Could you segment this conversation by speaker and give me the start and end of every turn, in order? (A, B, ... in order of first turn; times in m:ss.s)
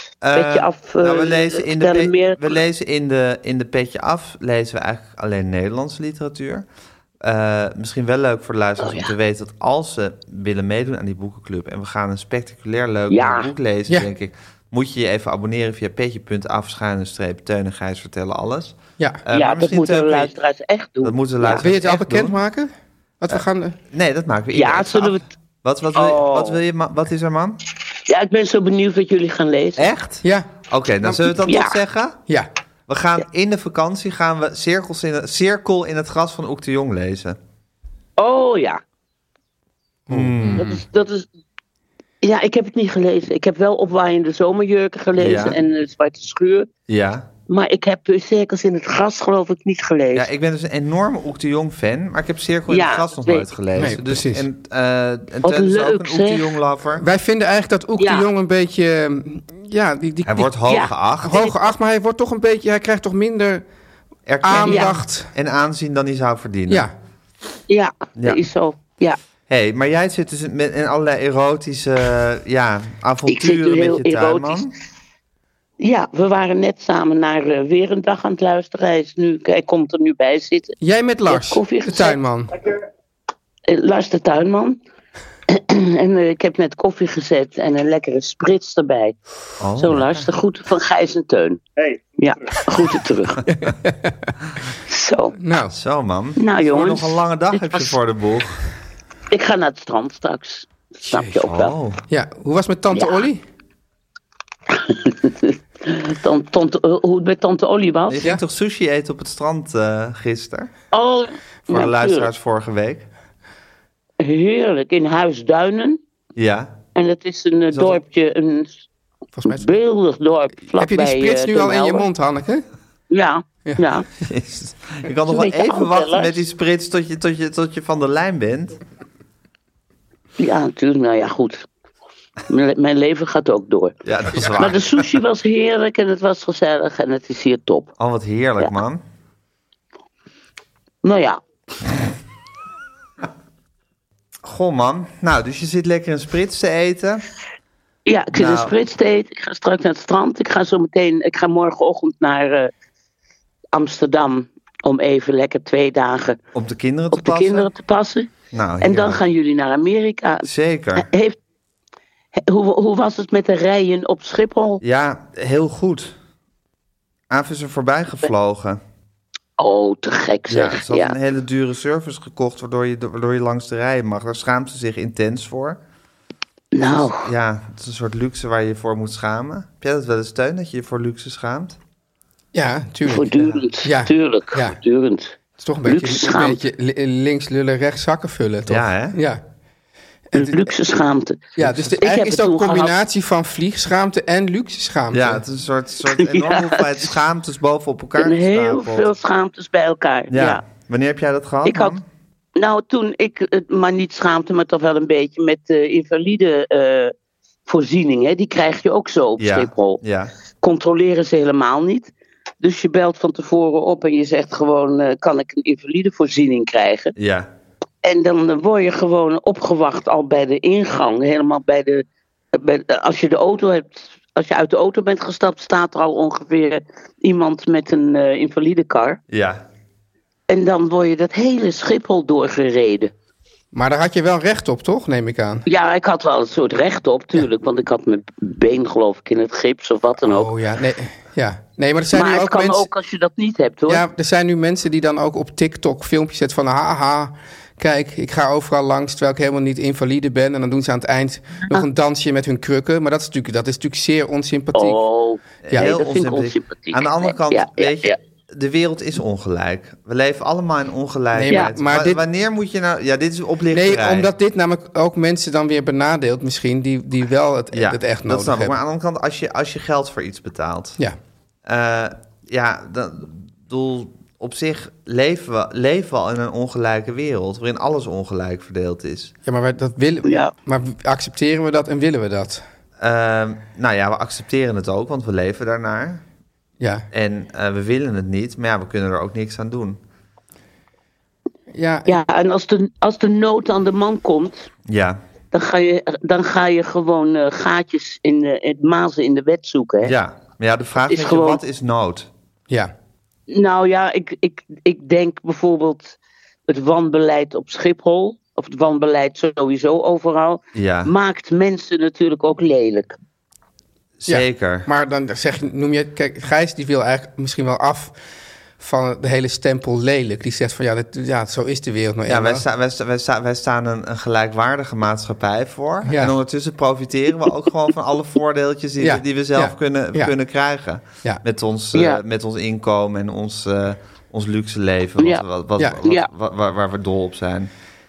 0:00.2-0:06.6 A
0:00.3-0:02.6 B
0:07.2-0:20.3 A
0:08.8-0:09.1 B
0:13.1-0:13.5 B
0:19.3-0:21.6 B
0:21.0-0:22.4 A
0:21.6-0:23.8 C
0:23.3-0:27.6 A
0:24.5-0:25.2 B
0:25.9-0:26.6 B
0:28.0-0:29.9 B
0:29.8-0:32.2 A
0:30.2-0:30.5 C
0:31.0-0:31.3 C
0:31.4-0:31.8 B
0:32.9-0:37.4 A
0:38.2-0:38.8 B
0:40.1-0:40.8 A
0:40.1-0:40.7 C
0:40.6-0:41.3 B
0:42.2-0:46.7 B
0:45.2-0:45.6 A
0:46.9-0:47.3 A
0:47.5-0:50.2 B
0:50.1-0:57.0 A
0:52.7-0:53.5 B
0:53.8-0:54.4 C
0:55.4-0:56.5 B
0:57.0-1:00.5 C
0:58.0-0:58.2 B
1:00.2-1:01.4 A
1:00.7-1:01.5 B
1:01.2-1:03.6 C
1:04.2-1:06.9 A
1:04.4-1:05.3 C
1:04.6-1:05.0 B
1:07.7-1:09.2 B
1:08.2-1:08.4 A
1:09.5-1:14.7 A
1:13.3-1:14.6 B
1:15.8-1:20.8 B
1:20.8-1:22.5 C
1:21.3-1:22.2 B
1:23.7-1:24.8 B
1:25.5-1:29.2 B
1:29.6-1:30.3 A
1:29.8-1:31.6 B
1:32.2-1:33.4 B
1:33.5-1:34.3 C
1:34.9-1:35.4 B
1:35.4-1:35.7 C
1:35.7-1:38.6 A
1:36.4-1:37.9 B
1:39.3-1:41.7 B
1:41.1-1:41.4 C
1:41.5-1:42.0 A
1:42.1-1:43.4 C
1:42.9-1:43.3 B
1:44.7-1:48.2 B
1:48.1-1:50.7 A
1:50.9-1:52.3 B
1:51.7-1:53.1 A
1:54.2-1:56.0 B
1:56.4-1:56.8 A
1:56.9-1:58.8 B
1:57.7-1:58.0 A
1:59.4-1:59.7 C
1:59.5-2:02.0 B
2:00.7-2:02.6 C
2:03.1-2:04.1 B
2:04.2-2:08.8 A
2:05.2-2:06.4 B
2:10.4-2:11.6 B
2:12.5-2:17.9 B
2:14.0-2:15.2 A
2:18.0-2:19.0 A
2:21.0-2:21.4 B
2:24.4-2:27.2 A
2:28.0-2:32.7 B
2:28.3-2:28.7 A
2:33.7-2:36.4 B
2:36.5-2:37.7 A
2:37.1-2:38.3 B
2:38.5-2:39.2 A
2:38.8-2:41.4 B
2:40.4-2:41.1 A
2:42.4-2:44.8 B
2:44.8-2:46.2 A
2:47.3-2:48.8 A
2:49.6-2:51.1 B
2:50.5-2:55.8 A
2:56.7-2:57.3 B
2:56.9-3:01.8 A
3:02.5-3:04.8 C
3:03.0-3:06.6 B
3:05.6-3:09.4 C
3:08.7-3:09.2 A
3:10.3-3:10.6 C
3:10.3-3:12.9 B
3:11.6-3:15.4 C
3:15.1-3:19.1 A
3:16.1-3:16.9 B
3:18.2-3:20.6 B
3:20.3-3:22.0 A
3:21.6-3:21.9 B
3:22.6-3:27.1 B
3:27.6-3:30.0 B
3:29.4-3:30.3 A
3:30.6-3:37.1 B
3:37.2-3:37.5 A
3:38.0-3:49.2 B
3:49.3-3:49.6 A
3:50.5-3:53.1 B
3:53.7-3:55.6 C
3:55.6-4:00.5 B
4:00.2-4:02.9 C
4:02.1-4:04.0 B
4:03.9-4:15.0 C
4:14.7-4:18.2 B
4:15.6-4:24.3 A
4:21.3-4:22.2 C
4:23.7-4:28.8 C
4:27.7-4:31.0 A
4:31.6-4:39.3 A
4:39.4-4:42.6 C
4:40.2-4:40.5 B
4:43.0-4:46.2 A
4:46.8-4:47.0 C
4:47.1-4:50.0 A
4:51.7-4:52.2 C
4:52.1-4:54.7 B
4:54.8-4:55.2 A
4:55.5-5:00.1 B
5:00.0-5:02.3 A
5:01.1-5:01.6 B
5:03.5-5:06.2 B
5:06.7-5:13.2 B
5:10.7-5:11.1 A
5:14.2-5:14.9 A
5:14.3-5:18.2 C
5:18.8-5:22.6 C
5:22.3-5:37.7 A
5:26.0-5:26.4 C
5:29.0-5:30.3 C
5:31.9-5:32.2 B
5:36.0-5:36.3 B